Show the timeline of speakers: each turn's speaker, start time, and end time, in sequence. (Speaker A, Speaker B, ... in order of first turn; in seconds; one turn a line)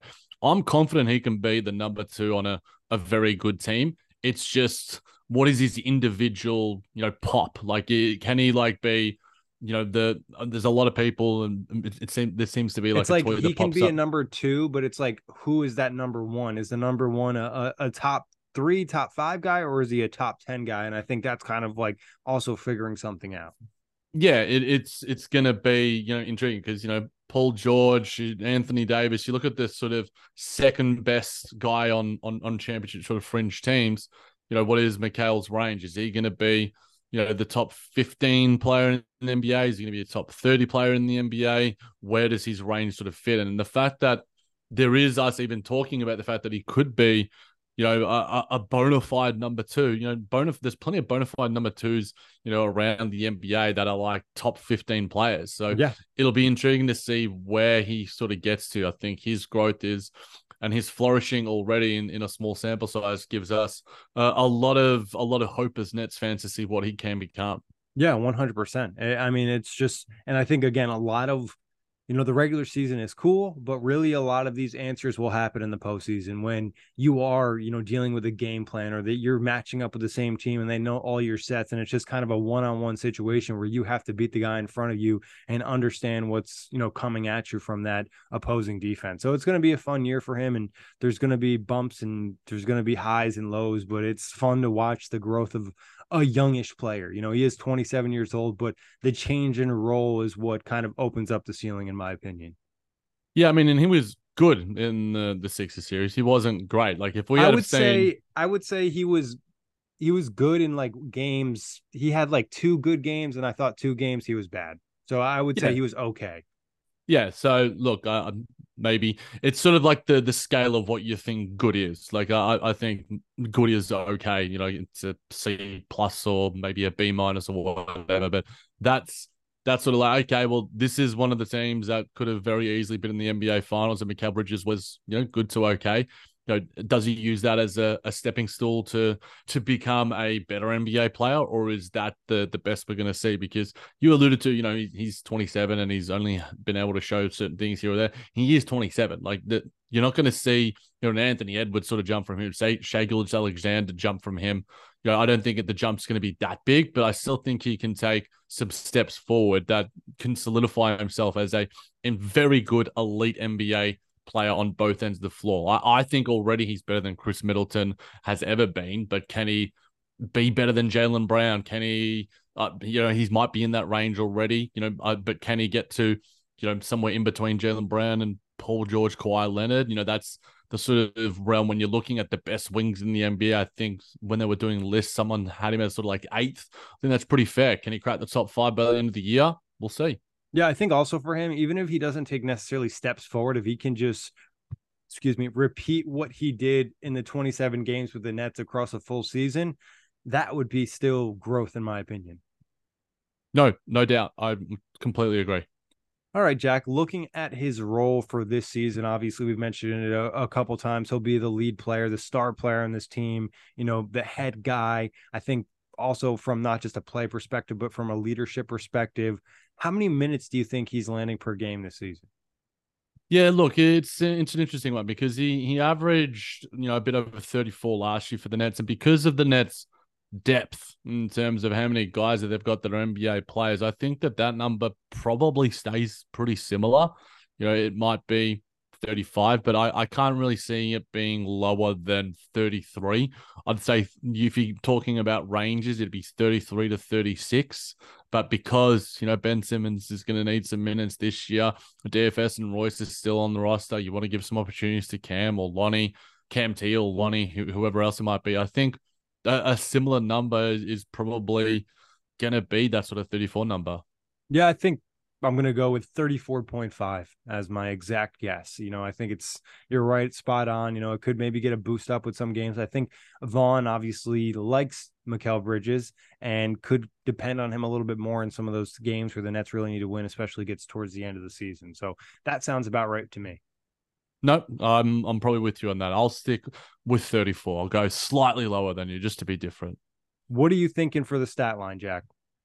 Speaker A: 0.4-13.9
Speaker B: 12.9-23.5
Speaker A: 24.1-60.1
Speaker B: 55.7-56.0
Speaker A: 60.6-67.6
Speaker B: 68.0-71.6
Speaker B: 72.1-102.6
Speaker A: 103.4-108.1
Speaker B: 107.3-109.4
Speaker B: 110.0-116.4
Speaker A: 117.1-169.7
Speaker A: 170.2-190.2
Speaker B: 190.5-194.3
Speaker B: 195.1-202.4
Speaker A: 203.5-205.7
Speaker B: 206.3-222.2
Speaker A: 223.3-261.9
Speaker A: 262.4-264.0
Speaker B: 264.5-283.6
Speaker A: 284.4-290.0
Speaker B: 290.5-292.3